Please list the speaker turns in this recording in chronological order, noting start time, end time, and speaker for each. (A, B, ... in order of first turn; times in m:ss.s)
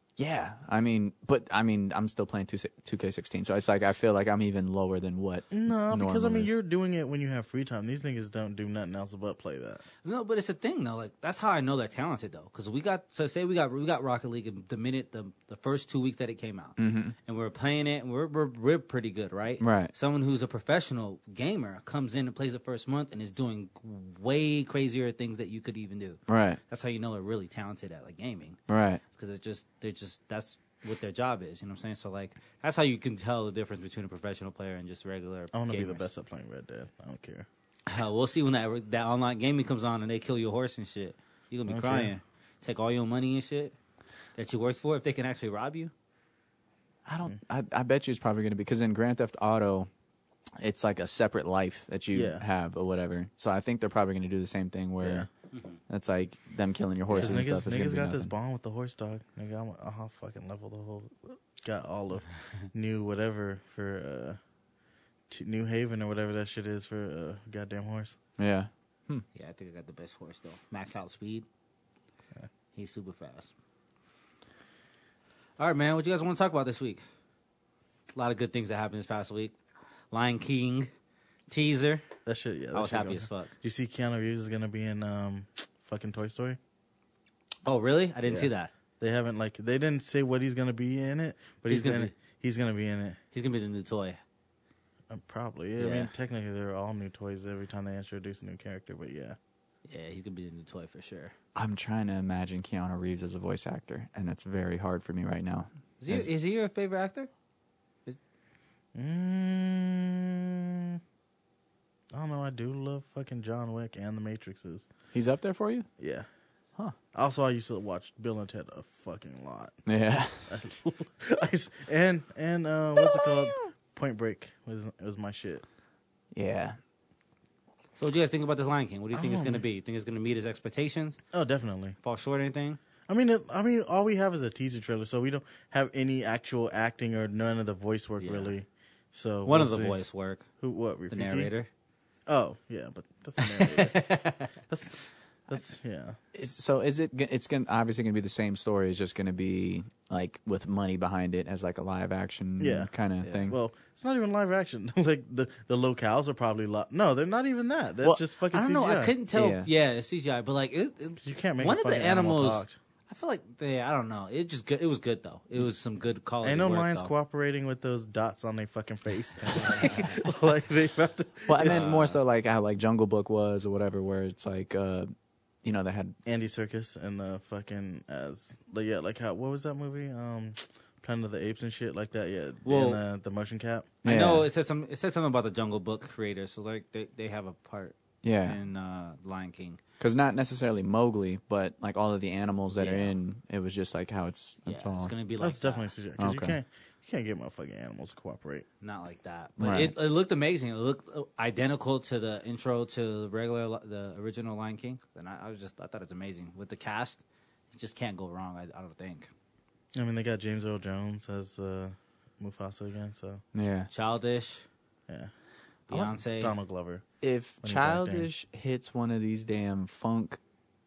0:00.2-0:06.5 A
0:05.5-0:09.8 B
0:10.0-0:28.6 C
0:16.8-0:17.2 A
0:19.6-0:19.9 A
0:26.3-0:26.6 A
0:28.7-0:29.0 A
0:29.1-0:36.1 C
0:35.5-0:37.5 B
0:37.9-0:43.8 C
0:41.7-0:42.1 B
0:44.4-0:45.9 C
0:47.1-0:49.9 A
0:50.6-0:55.3 A
0:52.1-0:52.4 B
0:55.0-0:55.3 B
0:55.5-0:55.8 C
0:55.9-0:58.3 A
0:57.1-0:57.4 C
0:57.1-1:04.4 B
1:05.3-1:08.2 B
1:08.4-1:09.2 A
1:09.4-1:11.5 C
1:12.8-1:13.5 C
1:15.6-1:17.0 C
1:18.2-1:19.6 C
1:20.1-1:20.9 C
1:21.5-1:22.0 C
1:22.3-1:26.6 B
1:22.7-1:23.5 C
1:27.7-1:28.7 C
1:28.3-1:33.2 B
1:31.7-1:32.1 C
1:33.3-1:34.2 C
1:35.1-1:39.4 B
1:35.8-1:36.1 C
1:39.9-1:41.3 C
1:41.6-1:46.3 A
1:46.0-1:47.3 C
1:49.0-1:51.0 B
1:52.1-1:54.9 B
1:55.1-1:55.9 A
1:56.0-1:56.3 B
1:57.1-1:59.8 B
1:59.9-2:00.5 A
2:00.5-2:05.6 B
2:06.3-2:06.8 A
2:08.0-2:11.2 C
2:09.1-2:09.6 B
2:11.3-2:12.0 B
2:12.0-2:12.8 C
2:13.1-2:20.0 B
2:18.2-2:18.5 C
2:19.4-2:20.5 C
2:20.6-2:21.5 B
2:21.1-2:21.7 C
2:22.3-2:24.0 B
2:23.4-2:24.5 C
2:24.7-2:25.0 B
2:25.5-2:26.2 B
2:26.4-2:33.6 A
2:32.6-2:32.9 B
2:33.2-2:33.5 C
2:33.5-2:39.2 B
2:38.5-2:47.1 C
2:39.3-2:39.7 A
2:41.2-2:42.8 B
2:46.4-2:52.0 B
2:49.5-2:50.2 C
2:51.5-2:55.1 A
2:51.6-2:52.2 C
2:55.6-2:56.2 A
2:56.3-3:03.9 B
3:02.6-3:03.0 C
3:04.0-3:04.5 A
3:04.0-3:09.8 C
3:08.2-3:08.6 A
3:10.0-3:15.1 A
3:12.8-3:13.2 C
3:14.7-3:15.9 C
3:15.4-3:18.7 B
3:16.2-3:16.6 A
3:18.8-3:27.2 C
3:19.6-3:19.9 A
3:27.7-3:29.3 C
3:30.0-3:33.4 B
3:33.6-3:33.9 A
3:33.9-3:34.6 C
3:35.9-3:36.6 C
3:35.9-3:37.0 B
3:37.2-3:40.4 A
3:37.6-3:38.3 B